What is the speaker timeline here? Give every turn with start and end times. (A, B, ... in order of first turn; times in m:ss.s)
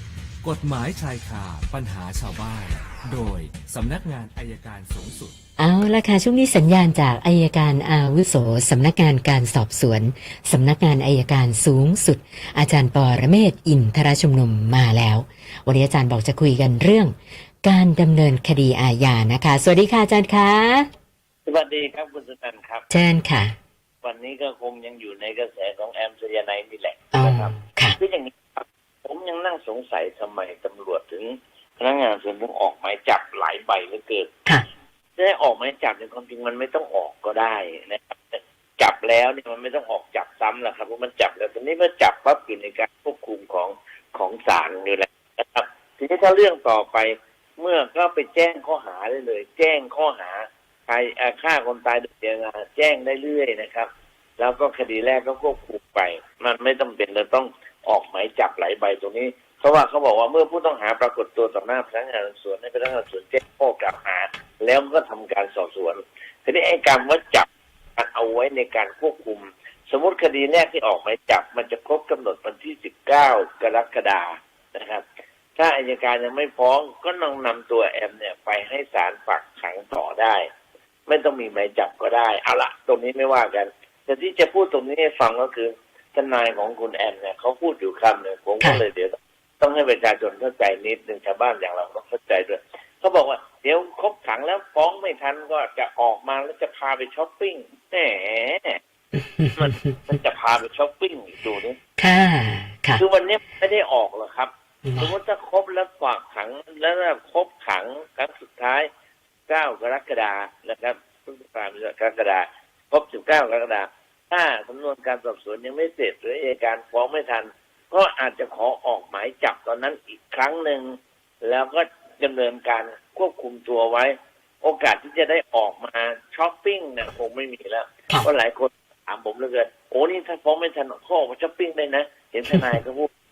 0:00.4-0:05.4 A
0:05.6-0:20.9 B
0:21.5-0:22.8 C
0:22.9-0:23.6 B
0:24.0-0:34.3 C
0:27.1-0:28.0 B
0:35.2-1:20.5 C
1:21.1-1:38.8 C
1:39.2-1:40.1 B
1:39.6-1:41.8 C
1:42.0-1:43.0 B
1:43.0-1:48.9 C
1:44.8-1:45.1 B
1:49.5-2:13.1 C